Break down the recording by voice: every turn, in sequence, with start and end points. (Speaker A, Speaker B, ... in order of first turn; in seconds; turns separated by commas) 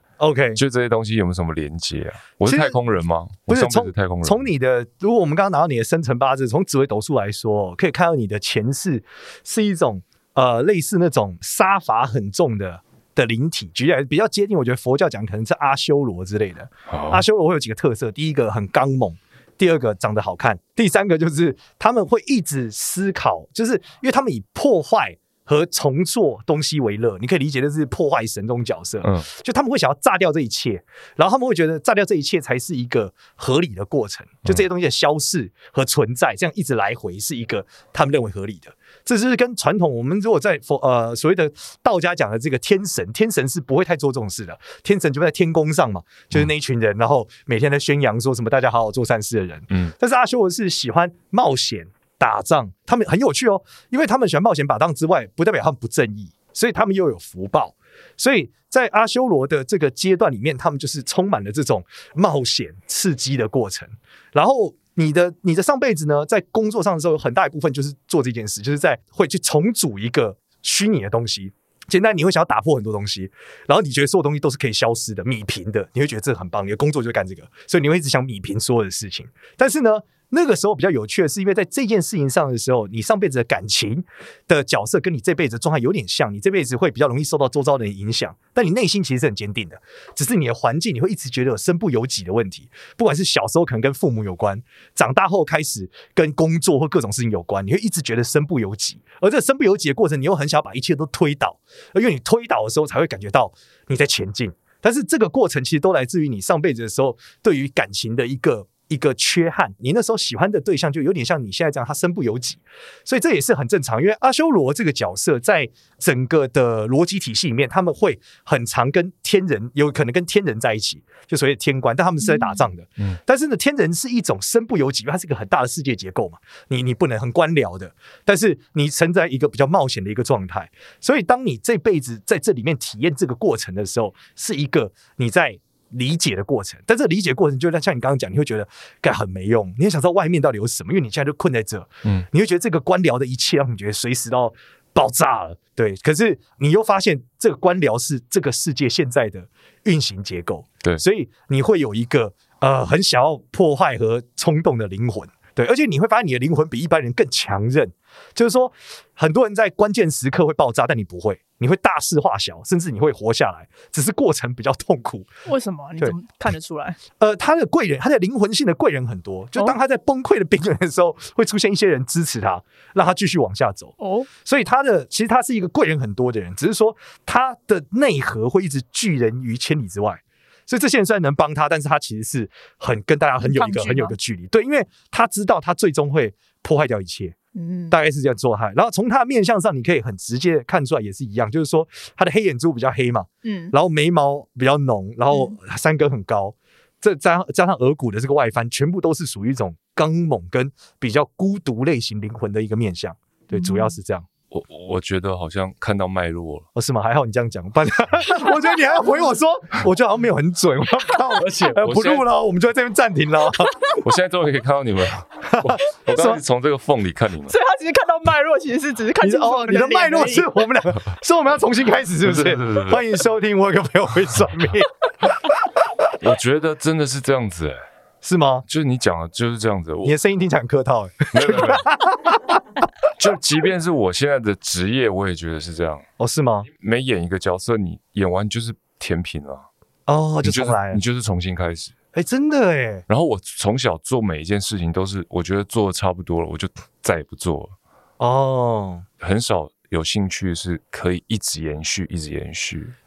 Speaker A: 0.2-0.6, Speaker B: 0.5-4.5, Speaker A: 2.5-2.8, Speaker A: 3.5-165.3, Speaker B: 16.9-17.2, Speaker B: 29.0-29.3, Speaker C: 122.2-122.6, Speaker C: 165.4-167.0, Speaker A: 167.2-187.4, Speaker C: 174.0-174.3, Speaker C: 183.4-184.1, Speaker C: 187.5-188.0, Speaker A: 187.9-204.2, Speaker C: 193.4-193.7, Speaker C: 203.5-203.9, Speaker B: 204.5-206.7, Speaker A: 206.8-213.8, Speaker B: 211.3-212.3, Speaker B: 214.0-217.5, Speaker A: 215.5-216.4, Speaker C: 217.5-220.5, Speaker A: 219.2-224.9, Speaker B: 222.2-223.1, Speaker B: 226.2-227.8, Speaker A: 228.2-228.7, Speaker B: 228.7-230.1, Speaker A: 230.0-232.9, Speaker B: 231.3-231.9, Speaker B: 233.2-236.0, Speaker A: 236.2-236.7, Speaker B: 236.8-239.7, Speaker A: 240.1-241.0, Speaker B: 240.4-241.9, Speaker A: 242.1-243.0, Speaker B: 243.1-247.8, Speaker A: 248.2-249.1, Speaker B: 249.2-252.9